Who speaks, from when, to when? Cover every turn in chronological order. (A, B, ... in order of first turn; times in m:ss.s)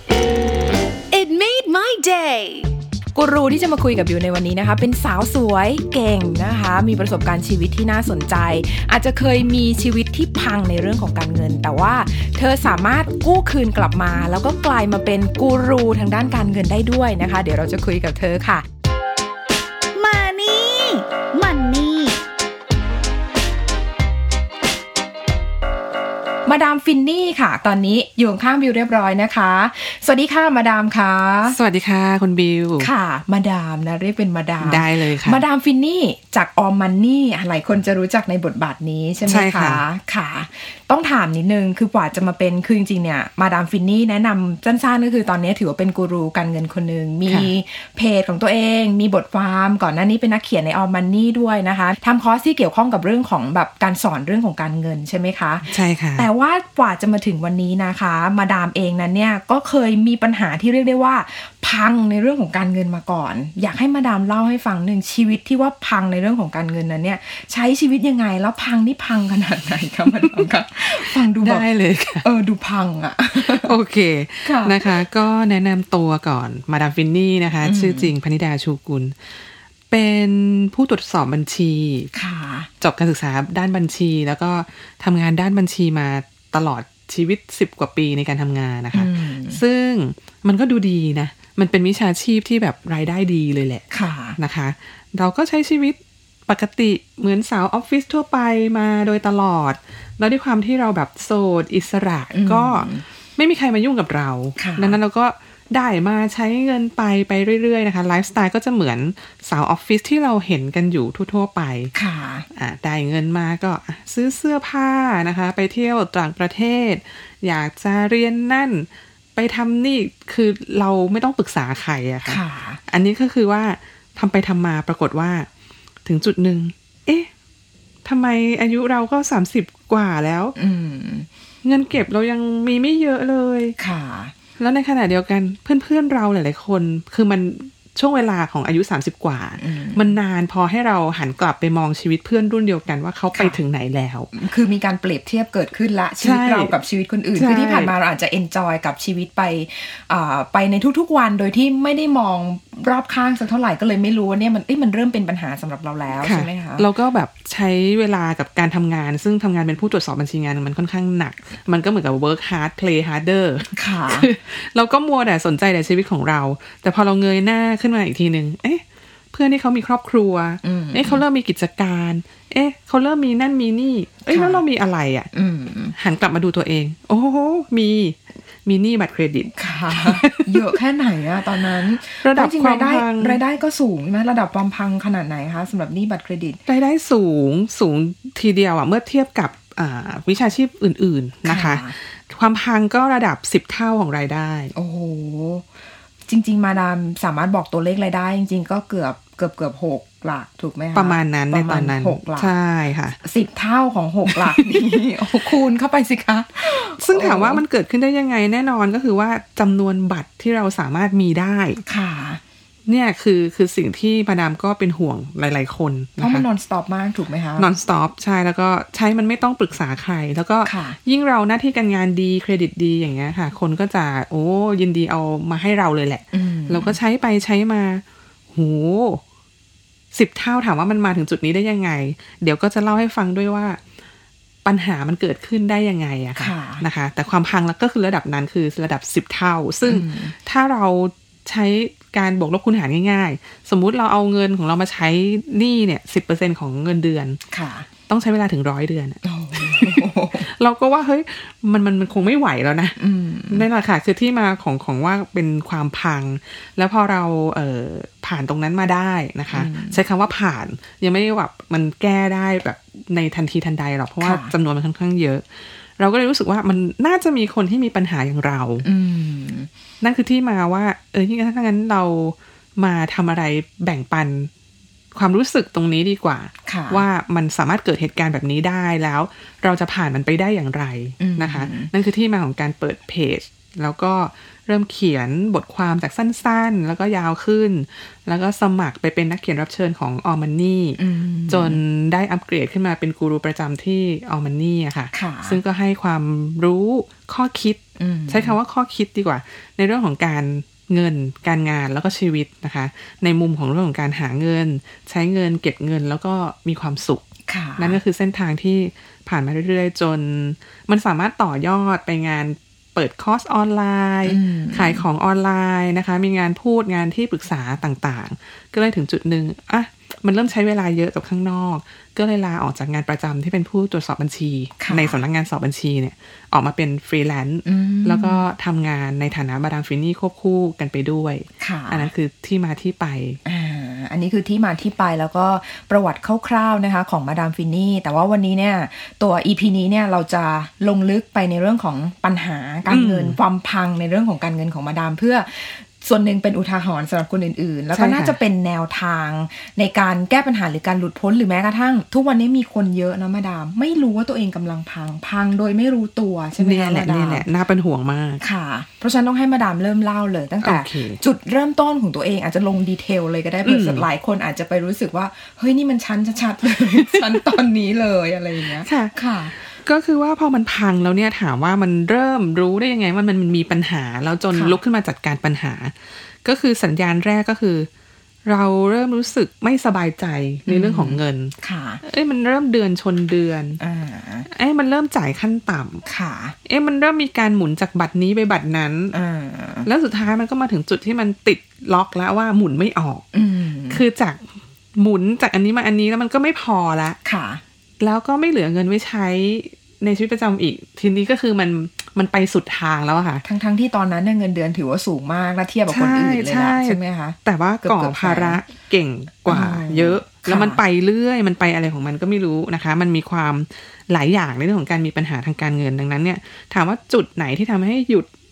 0:01.1-0:02.7 A
0:03.2-0:18.6 B
0:20.0-0:22.2 A
0:26.5-0:31.6 B
0:31.5-0:32.9 C
0:32.8-1:11.7 B
0:34.6-0:35.4 C
0:39.2-0:39.8 C
0:47.3-0:47.5 C
0:55.7-0:56.3 C
1:10.2-1:10.4 C
1:11.0-1:12.2 C
1:12.2-1:13.7 B
1:13.4-1:19.2 C
1:14.4-1:15.0 B
1:17.6-1:18.1 B
1:19.9-1:22.1 C
1:22.2-1:22.7 B
1:22.8-1:33.8 C
1:28.9-1:29.6 B
1:33.9-1:34.4 B
1:34.4-1:51.9 C
1:42.3-1:43.0 B
1:44.6-1:45.0 B
1:51.9-1:52.5 B
1:52.5-2:05.5 C
2:02.3-2:02.8 B
2:06.0-2:07.3 C
2:08.0-2:10.6 C
2:10.6-2:11.3 B
2:11.6-2:13.8 C
2:13.8-2:14.3 B
2:14.6-2:24.3 C
2:19.6-2:20.1 B
2:23.3-2:23.6 B
2:24.3-2:36.9 B
2:26.2-2:26.7 C
2:27.4-2:27.9 C
2:36.2-2:55.3 C
2:43.7-2:44.3 B
2:50.6-2:51.2 B
2:54.3-2:54.6 B
2:55.3-2:56.0 B
2:56.0-3:00.7 C
2:59.6-3:06.6 B
3:01.8-3:03.4 C
3:06.7-3:14.7 C
3:11.5-3:12.0 B
3:14.7-3:15.7 B
3:16.3-3:22.5 B
3:21.0-3:23.2 C
3:23.2-3:27.6 B
3:24.3-3:24.6 C
3:26.8-3:31.8 C
3:31.8-3:32.4 B
3:32.9-3:36.5 C
3:36.2-3:37.7 B
3:37.6-3:49.2 C
3:40.6-3:41.0 B
3:46.3-3:47.0 B
3:50.1-3:53.8 C
3:54.6-4:07.4 C
3:56.4-3:56.8 B
3:59.8-4:00.4 B
4:07.5-4:07.9 B
4:08.1-4:13.0 C
4:09.2-4:10.5 B
4:13.0-4:13.7 B
4:13.5-4:28.8 C
4:19.5-4:20.0 B
4:24.2-4:24.5 B
4:28.8-4:29.7 B
4:30.0-4:34.5 C
4:35.1-5:07.2 C
4:36.7-4:37.0 B
4:41.2-4:41.9 B
4:51.0-4:51.8 B
4:55.1-4:55.6 B
4:58.0-4:58.6 B
5:07.5-5:08.0 B
5:07.8-5:33.4 C
5:14.2-5:15.0 B
5:24.8-5:25.2 B
5:27.6-5:28.4 B
5:31.6-5:32.1 B
5:33.4-5:57.4 B
5:42.9-5:43.4 C
5:47.9-5:48.4 C
5:56.6-5:58.4 C
5:58.4-6:09.6 B
6:00.6-6:01.2 C
6:03.6-6:04.1 C
6:08.8-6:17.9 C
6:14.5-6:14.8 B
6:18.4-6:23.8 C
6:20.7-6:22.0 B
6:23.8-6:24.5 B
6:24.5-6:26.0 C
6:26.1-6:26.6 B
6:26.6-6:29.1 C
6:29.1-6:29.9 B
6:29.8-6:33.3 C
6:33.3-6:34.0 B
6:33.9-6:37.2 C
6:37.2-6:37.6 B
6:38.0-6:43.4 C
6:43.4-6:48.6 B
6:45.9-6:58.3 C
6:49.5-6:50.8 B